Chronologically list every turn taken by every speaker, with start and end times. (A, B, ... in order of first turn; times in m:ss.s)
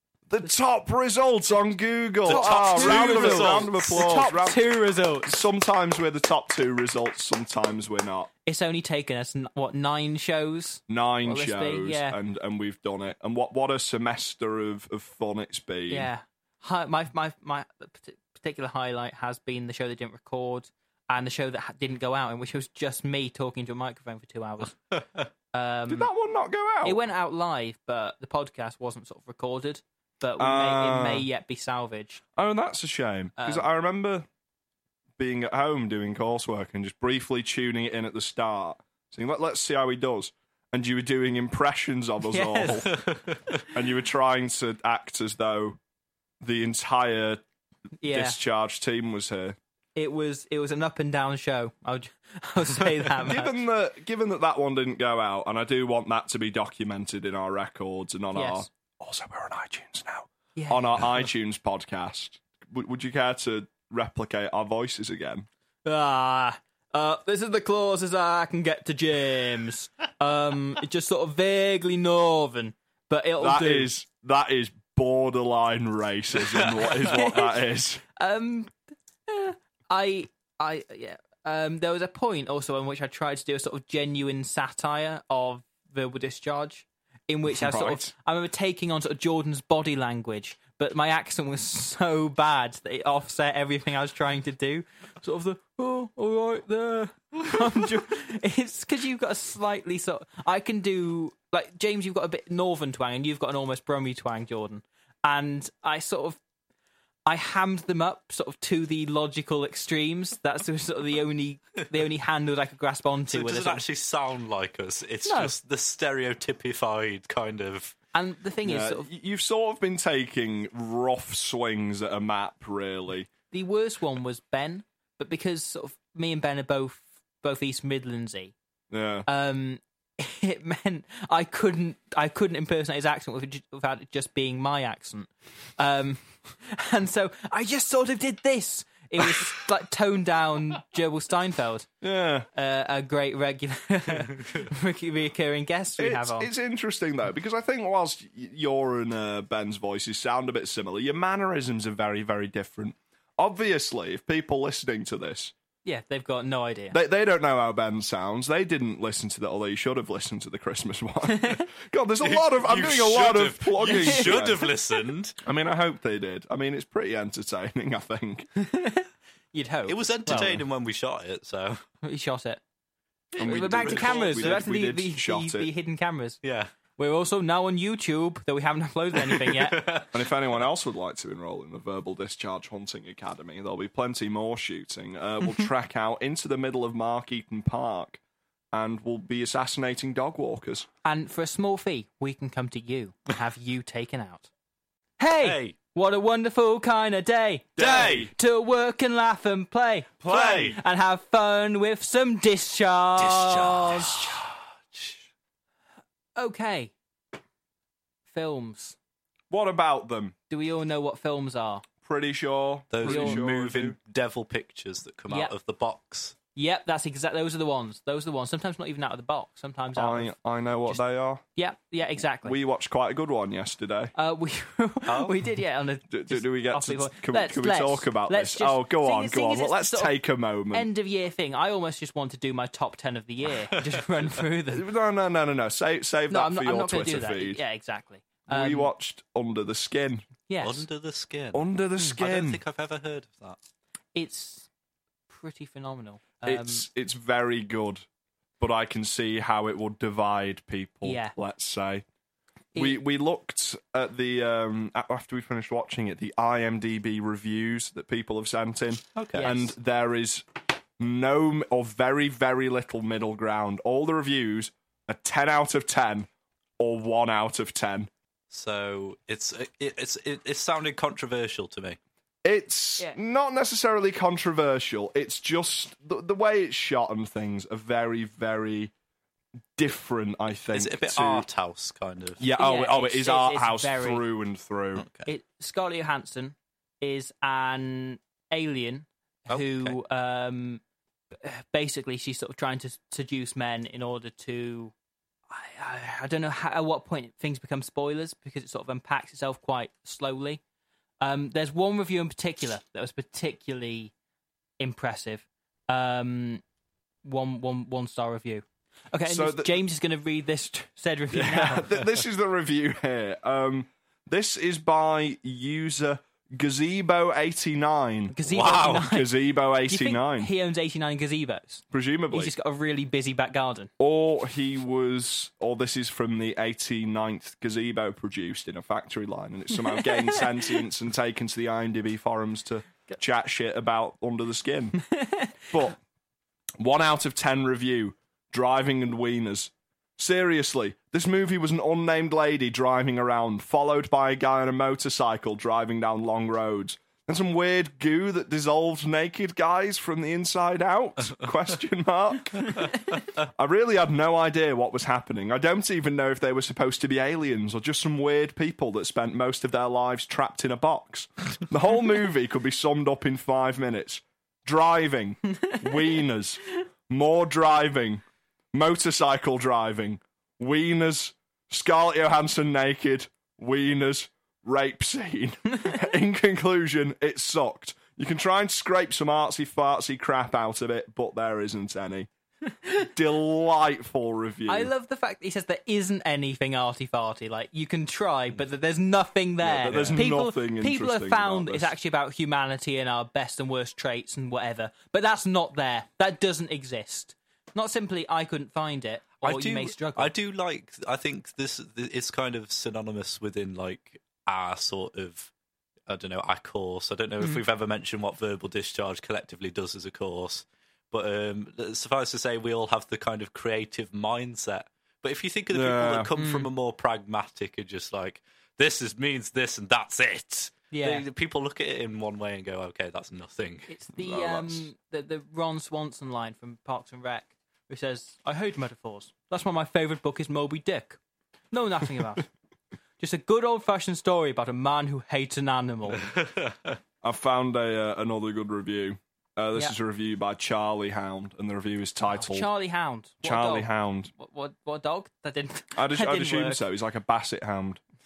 0:00.3-0:04.7 A
0:02.2-0:04.3 B
0:02.2-0:05.4 C
0:05.2-0:08.3 A
0:08.4-0:12.2 C
0:10.9-0:16.1 A
0:15.9-0:25.0 C
0:25.5-0:26.1 C
0:25.9-0:27.0 A
0:26.8-0:32.2 C
0:30.4-0:31.2 A
0:32.4-0:34.2 A
0:33.4-0:33.6 C
0:35.2-0:43.0 A
0:42.3-0:43.1 C
0:42.8-0:43.6 B
0:43.6-0:45.8 A
0:46.4-0:47.4 A
0:48.0-0:48.4 C
0:48.0-0:49.6 A
0:49.9-0:53.5 C
0:53.2-1:05.5 A
0:58.3-0:58.6 C
1:00.6-1:01.2 C
1:05.8-1:13.9 C
1:13.4-1:18.0 A
1:16.5-1:16.9 B
1:17.0-1:18.7 C
1:19.3-1:46.4 C
1:27.5-1:28.1 A
1:47.2-1:53.8 C
1:53.3-1:57.9 B
1:55.2-1:55.5 C
1:58.1-1:59.1 C
1:58.6-2:03.3 A
2:03.5-2:08.5 C
2:08.9-2:09.2 A
2:09.3-2:21.9 C
2:22.0-2:22.5 A
2:22.5-2:26.5 C
2:26.0-2:35.5 A
2:35.8-2:37.0 C
2:36.9-2:44.6 A
2:42.2-2:45.4 B
2:43.8-2:44.8 C
2:45.4-2:48.5 A
2:48.6-2:50.6 C
2:49.9-2:51.8 B
2:50.3-2:50.6 A
2:52.0-2:52.6 C
2:53.4-2:54.6 B
2:53.4-2:55.7 A
2:53.4-2:56.4 C
2:56.4-2:56.7 B
2:57.0-3:00.0 C
2:59.1-3:00.2 B
3:00.1-3:08.2 A
3:08.7-3:10.9 A
3:11.0-3:14.5 C
3:15.2-3:24.4 C
3:15.4-3:15.8 B
3:17.8-3:18.3 A
3:17.8-3:18.3 B
3:20.2-3:20.8 A
3:20.3-3:20.8 B
3:23.2-3:25.2 B
3:26.4-3:26.9 C
3:28.3-3:29.0 C
3:29.5-3:30.3 A
3:30.5-3:31.8 C
3:32.0-3:34.0 A
3:32.9-3:36.4 B
3:33.0-3:33.4 C
3:36.5-3:40.3 C
3:40.0-3:41.4 A
3:41.6-3:42.6 C
3:42.4-3:44.1 A
3:44.1-3:50.2 C
3:45.0-3:45.3 B
3:46.1-3:50.9 A
3:50.7-3:54.8 C
3:53.7-3:54.4 B
3:54.7-3:57.6 A
3:56.3-3:58.9 C
3:58.4-4:00.3 A
4:00.5-4:00.8 C
4:00.6-4:03.6 B
4:01.5-4:02.6 A
4:04.1-4:04.7 C
4:05.3-4:06.9 C
4:06.4-4:08.0 A
4:08.6-4:12.0 A
4:11.0-4:11.3 C
4:12.7-4:13.0 C
4:12.7-4:20.4 A
4:19.1-4:19.5 B
4:19.4-4:19.7 C
4:21.0-4:28.1 A
4:28.5-4:32.0 B
4:32.4-4:38.9 A
4:39.8-4:41.5 A
4:40.7-4:42.4 B
4:42.4-4:45.1 A
4:42.6-4:44.2 C
4:45.0-4:45.3 B
4:45.2-4:50.8 C
4:49.5-4:50.0 B
4:51.3-4:54.9 C
4:55.5-5:00.6 C
5:01.2-5:04.1 C
5:04.8-5:06.6 C
5:07.2-5:11.9 C
5:09.2-5:09.8 A
5:11.3-5:20.5 A
5:18.3-5:23.9 C
5:18.5-5:19.1 B
5:21.9-5:22.5 A
5:24.0-5:35.0 A
5:29.8-5:30.8 C
5:35.1-5:35.7 C
5:35.7-5:36.0 A
5:36.8-6:22.3 A
6:23.0-6:24.9 A
6:24.7-6:40.3 C
6:29.6-6:31.9 A
6:29.8-6:30.3 B
6:39.4-6:45.5 B
6:46.1-7:03.9 B
6:55.7-6:56.3 A
6:56.3-6:56.7 C
7:00.9-7:01.2 C
7:03.9-7:11.2 C
7:04.1-7:04.9 A
7:11.7-7:12.5 C
7:13.2-7:16.3 C
7:16.1-7:17.0 B
7:17.2-7:22.7 A
7:22.2-7:26.8 C
7:23.4-7:24.3 A
7:25.9-7:28.0 A